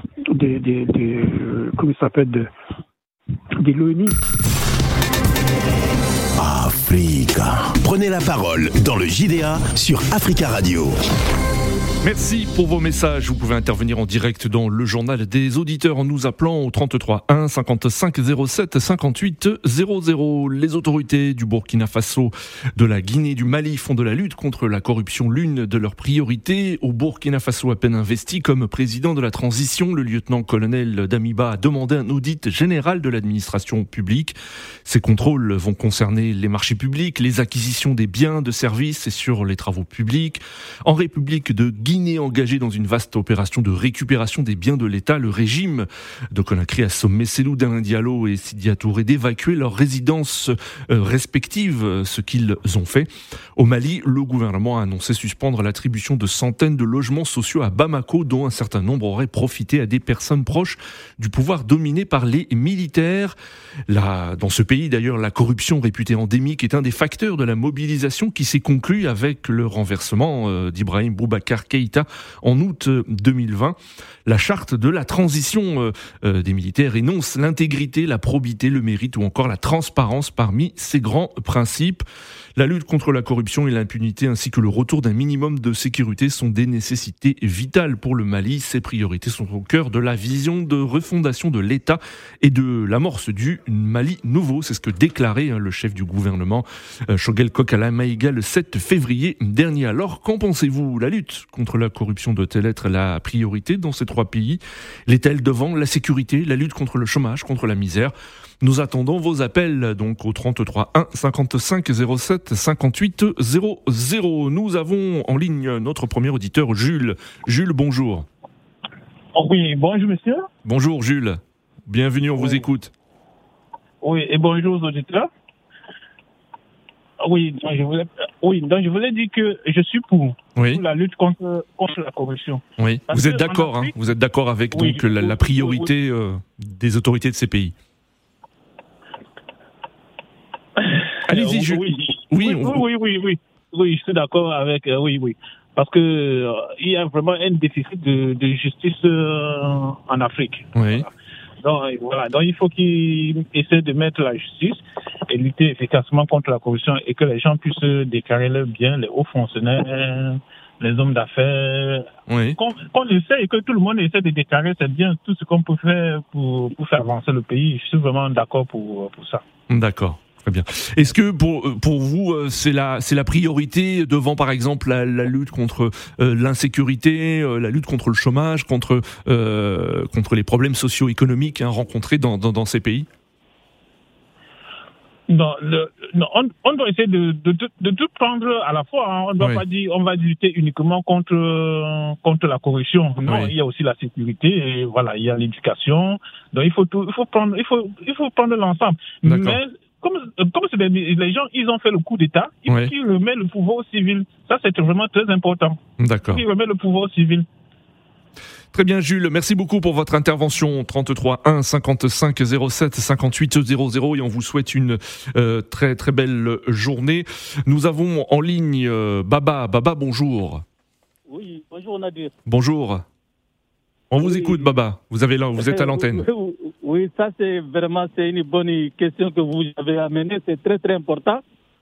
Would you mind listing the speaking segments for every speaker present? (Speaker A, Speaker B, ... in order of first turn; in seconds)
Speaker A: 0.3-2.5, 3.6-4.2
Speaker B: 6.4-11.0
Speaker C: 12.0-63.4, 63.9-82.0, 82.6-118.3, 120.6-122.9, 130.6-130.8, 132.8-137.8, 141.3-142.8, 150.8-151.1, 162.3-162.6, 169.7-183.1, 193.2-193.5, 199.2-199.6, 206.0-206.4, 208.7-220.6, 222.5-223.0, 224.1-226.2
Speaker D: 119.3-120.5, 122.4-122.7, 124.0-125.3, 127.2-133.9, 134.7-135.9, 140.8-151.1, 151.6-169.4, 185.3-207.5
Speaker E: 221.3-222.3, 224.2-224.7, 225.6-231.4